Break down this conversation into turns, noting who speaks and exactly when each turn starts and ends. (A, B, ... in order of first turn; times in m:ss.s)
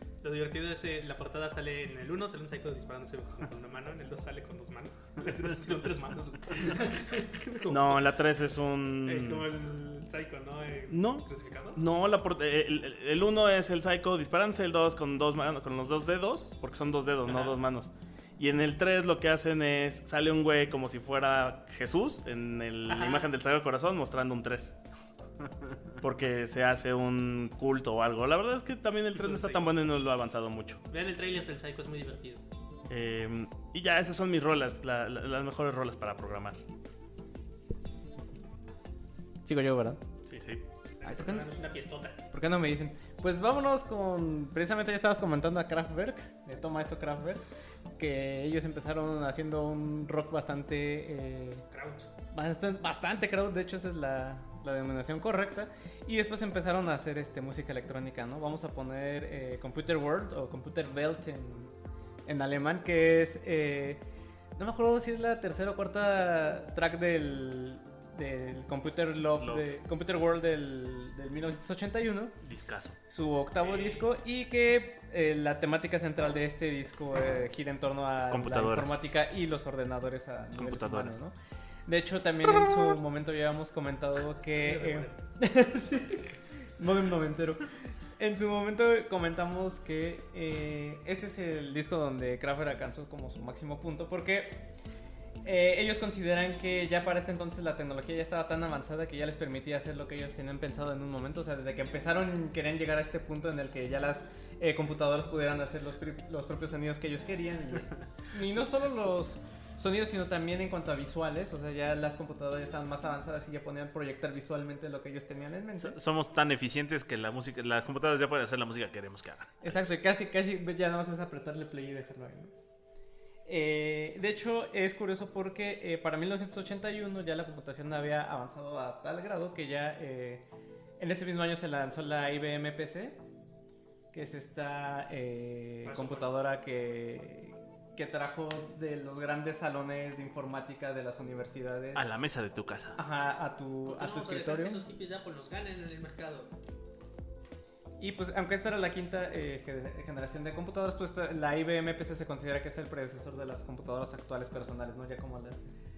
0:00.2-0:08.1 A
0:07.7-0:09.5 B
0:09.0-0:11.8 A
0:10.9-0:24.8 B
0:17.2-0:17.6 A
0:22.9-0:23.3 A
0:26.0-0:30.8 B
0:29.1-0:29.7 A
0:30.9-0:32.4 A
0:32.9-0:36.6 B
0:39.4-0:40.0 C
0:40.3-0:40.6 D
0:41.0-0:42.2 A
0:41.0-0:41.5 C
0:42.3-0:47.4 C
0:48.0-0:51.6 C
0:51.7-0:52.1 A
0:52.3-1:01.8 C
1:02.3-1:04.0 C
1:04.6-1:12.4 C
1:09.4-1:09.7 D
1:12.4-1:13.0 D
1:13.1-1:21.4 C
1:13.6-1:14.0 A
1:18.3-1:19.0 D
1:20.6-1:21.2 D
1:21.9-1:34.7 C
1:24.5-1:25.2 A
1:35.4-1:56.0 C
1:55.8-2:00.0 D
1:59.6-2:02.5 C
2:03.4-2:10.4 C
2:11.0-2:13.2 C
2:14.1-2:22.0 C
2:15.8-2:16.3 A
2:22.0-2:23.0 D
2:23.0-2:24.8 C
2:23.9-2:26.5 A
2:28.0-2:35.6 C